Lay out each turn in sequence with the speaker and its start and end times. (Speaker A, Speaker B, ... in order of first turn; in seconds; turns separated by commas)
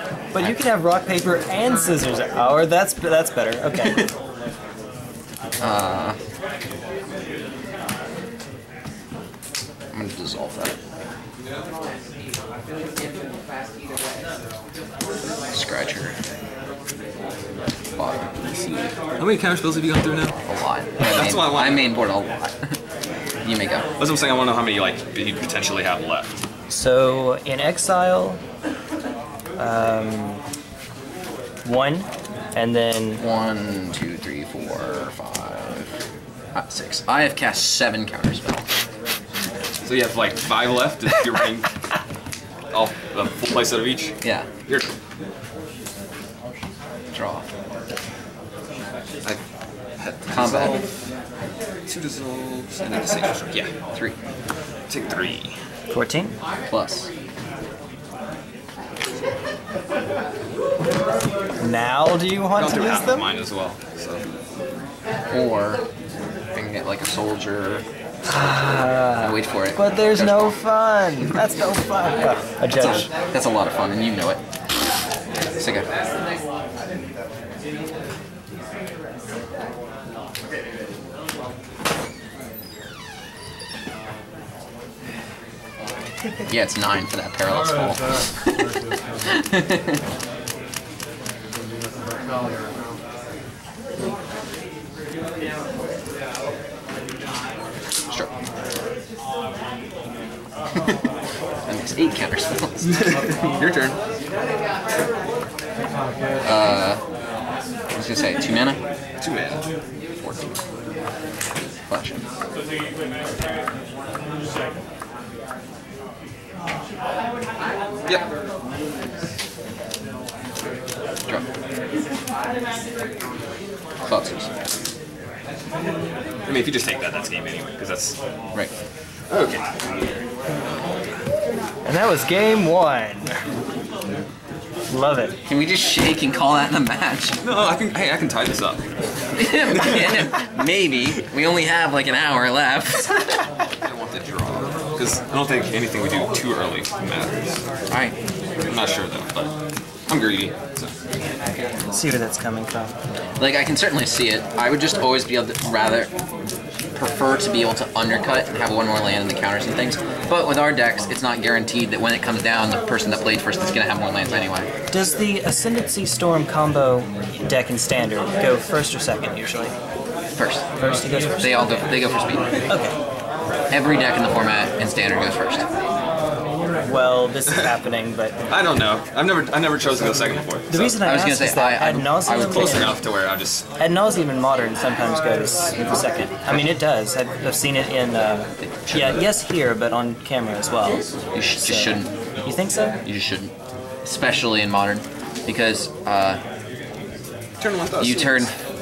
Speaker A: 0.3-4.1, Speaker B: 5.6-6.2, Speaker B: 9.9-10.8, Speaker B: 15.5-16.1, Speaker B: 18.0-18.3, Speaker C: 18.5-20.3, Speaker B: 20.5-22.8, Speaker C: 21.0-22.0, Speaker B: 23.4-23.9, Speaker C: 24.0-26.3, Speaker A: 26.7-28.4, Speaker A: 29.6-30.4, Speaker A: 31.6-33.2, Speaker B: 33.2-35.9, Speaker B: 36.5-38.6, Speaker C: 39.8-41.7, Speaker C: 42.7-44.1, Speaker B: 44.2-44.5, Speaker B: 47.1-47.5, Speaker C: 50.0-50.9, Speaker B: 50.3-50.7, Speaker C: 51.9-53.7, Speaker C: 54.9-55.5, Speaker A: 55.9-56.4, Speaker B: 56.7-57.1, Speaker A: 61.6-63.2, Speaker C: 62.5-64.2, Speaker B: 65.3-65.8, Speaker B: 66.5-67.8, Speaker A: 68.3-73.1, Speaker B: 69.2-70.5, Speaker B: 72.7-74.4, Speaker B: 75.6-75.9, Speaker B: 86.5-88.5, Speaker D: 87.4-89.4, Speaker B: 89.3-90.0, Speaker D: 91.5-93.0, Speaker B: 101.7-103.0, Speaker C: 102.8-104.0, Speaker D: 105.8-106.5, Speaker B: 106.4-107.0, Speaker B: 108.0-108.8, Speaker C: 109.2-109.6, Speaker B: 111.9-112.2, Speaker B: 124.1-124.5, Speaker C: 126.5-128.2, Speaker C: 129.3-129.7, Speaker A: 131.8-133.3, Speaker A: 134.9-135.3, Speaker B: 135.5-137.4, Speaker C: 137.4-138.8, Speaker B: 139.3-143.4, Speaker C: 139.7-140.2, Speaker C: 143.8-147.6, Speaker B: 147.9-148.2, Speaker C: 148.7-149.5, Speaker C: 150.1-150.9, Speaker A: 151.9-152.9, Speaker B: 153.4-156.1, Speaker B: 157.0-164.7, Speaker A: 164.9-169.8, Speaker B: 170.4-170.7, Speaker D: 170.8-172.7, Speaker A: 170.8-171.6, Speaker B: 171.3-172.7, Speaker A: 172.7-172.9, Speaker B: 173.7-175.7, Speaker A: 176.8-178.3, Speaker C: 178.5-181.0, Speaker A: 180.7-183.0, Speaker B: 181.0-182.9, Speaker C: 182.5-183.7, Speaker A: 183.8-191.0, Speaker B: 188.6-189.2, Speaker B: 191.3-192.1, Speaker A: 191.6-193.0, Speaker B: 193.0-193.5, Speaker B: 194.1-196.4, Speaker C: 197.6-198.5, Speaker B: 198.0-198.6